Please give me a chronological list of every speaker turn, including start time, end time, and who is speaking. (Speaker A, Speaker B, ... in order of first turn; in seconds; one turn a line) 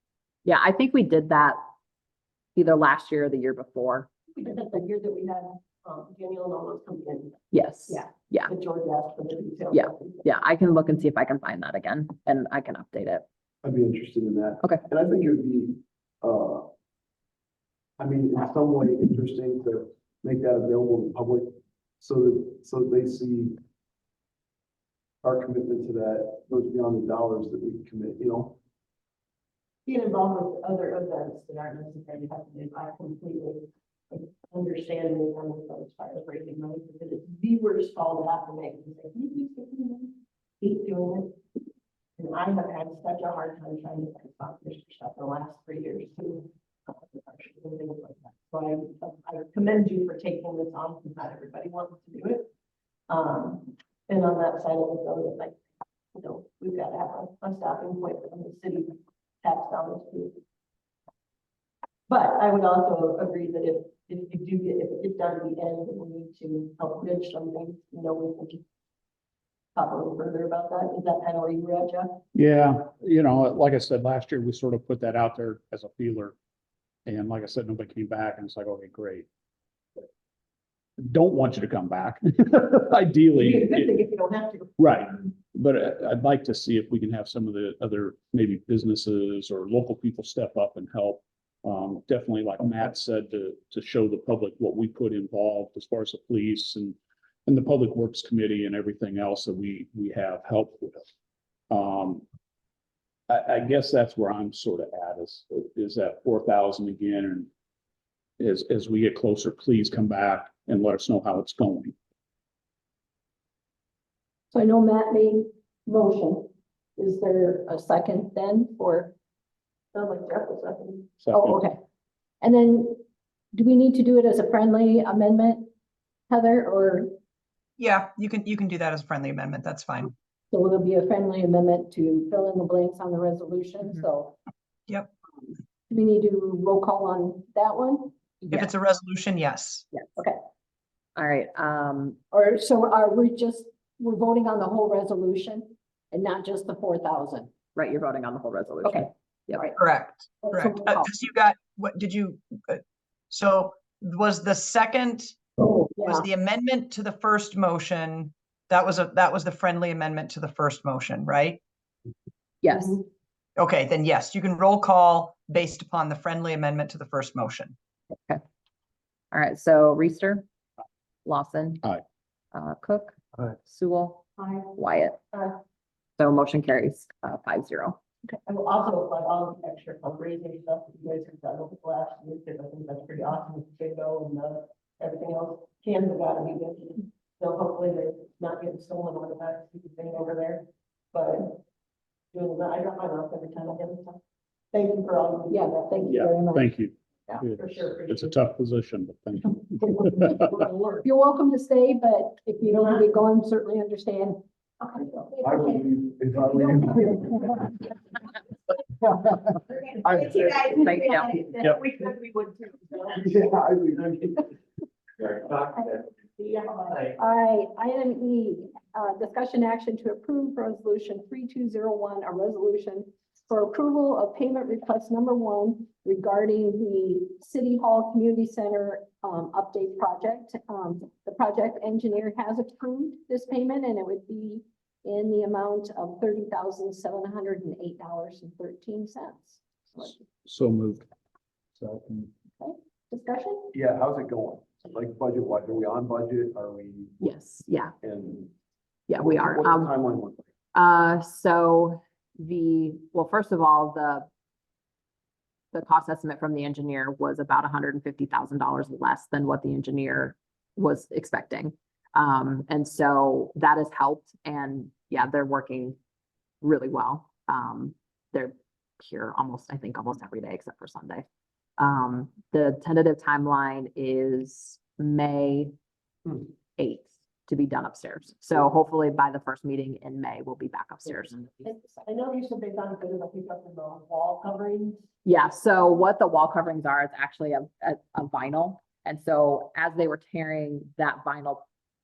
Speaker A: 0.5-1.6
Speaker A: 2.5-4.1
Speaker B: 4.4-6.2
Speaker B: 7.0-7.2
Speaker A: 7.5-8.5
Speaker B: 8.5-9.4
Speaker A: 9.7-13.2
Speaker C: 13.6-16.7
Speaker C: 18.0-23.6
Speaker C: 25.2-28.6
Speaker B: 29.9-33.5
Speaker B: 34.1-37.4
Speaker B: 37.9-39.5
Speaker B: 42.2-46.4
Speaker B: 46.9-48.8
Speaker B: 50.6-52.4
Speaker B: 53.1-55.5
Speaker B: 56.2-58.9
Speaker B: 59.4-60.2
Speaker B: 62.1-68.5
Speaker B: 69.8-72.0
Speaker D: 72.3-76.3
Speaker D: 77.0-79.3
Speaker D: 81.0-83.9
Speaker B: 83.4-84.7
Speaker D: 84.8-101.1
Speaker D: 101.7-102.2
Speaker D: 103.3-107.5
Speaker D: 108.4-111.9
Speaker E: 114.5-119.1
Speaker B: 120.0-121.0
Speaker D: 121.2-121.6
Speaker E: 121.3-121.8
Speaker E: 122.4-123.0
Speaker E: 123.5-125.7
Speaker E: 126.3-127.1
Speaker F: 127.8-130.1
Speaker E: 130.5-134.4
Speaker E: 135.4-138.7
Speaker F: 138.5-139.8
Speaker A: 141.2-142.2
Speaker E: 142.3-147.6
Speaker A: 147.7-149.7
Speaker E: 148.8-149.8
Speaker F: 149.7-155.4
Speaker E: 150.4-151.0
Speaker E: 155.6-156.3
Speaker F: 156.0-161.6
Speaker A: 162.6-163.0
Speaker F: 163.6-167.7
Speaker A: 169.3-170.4
Speaker A: 171.2-172.0
Speaker A: 172.5-175.2
Speaker A: 176.2-178.0
Speaker B: 178.5-190.6
Speaker B: 191.1-191.6
Speaker B: 192.3-194.2
Speaker B: 194.7-195.4
Speaker E: 195.5-196.7
Speaker D: 196.0-200.5
Speaker B: 197.3-198.2
Speaker B: 200.6-200.9
Speaker E: 201.0-204.4
Speaker C: 205.4-207.8
Speaker C: 209.0-209.4
Speaker C: 210.0-210.8
Speaker A: 210.7-211.3
Speaker F: 211.7-212.9
Speaker C: 213.1-214.5
Speaker F: 215.3-215.9
Speaker F: 216.9-217.1
Speaker E: 217.1-240.0
Speaker D: 240.0-241.1
Speaker D: 241.8-242.3
Speaker E: 242.6-243.7
Speaker C: 243.7-247.3
Speaker A: 247.2-247.9
Speaker C: 248.0-248.5
Speaker A: 249.1-249.9
Speaker C: 249.2-250.5
Speaker A: 250.7-254.3
Speaker A: 255.7-265.9
Speaker A: 266.6-271.2
Speaker A: 271.8-275.7
Speaker A: 276.3-281.6
Speaker B: 281.6-284.9
Speaker A: 285.2-291.6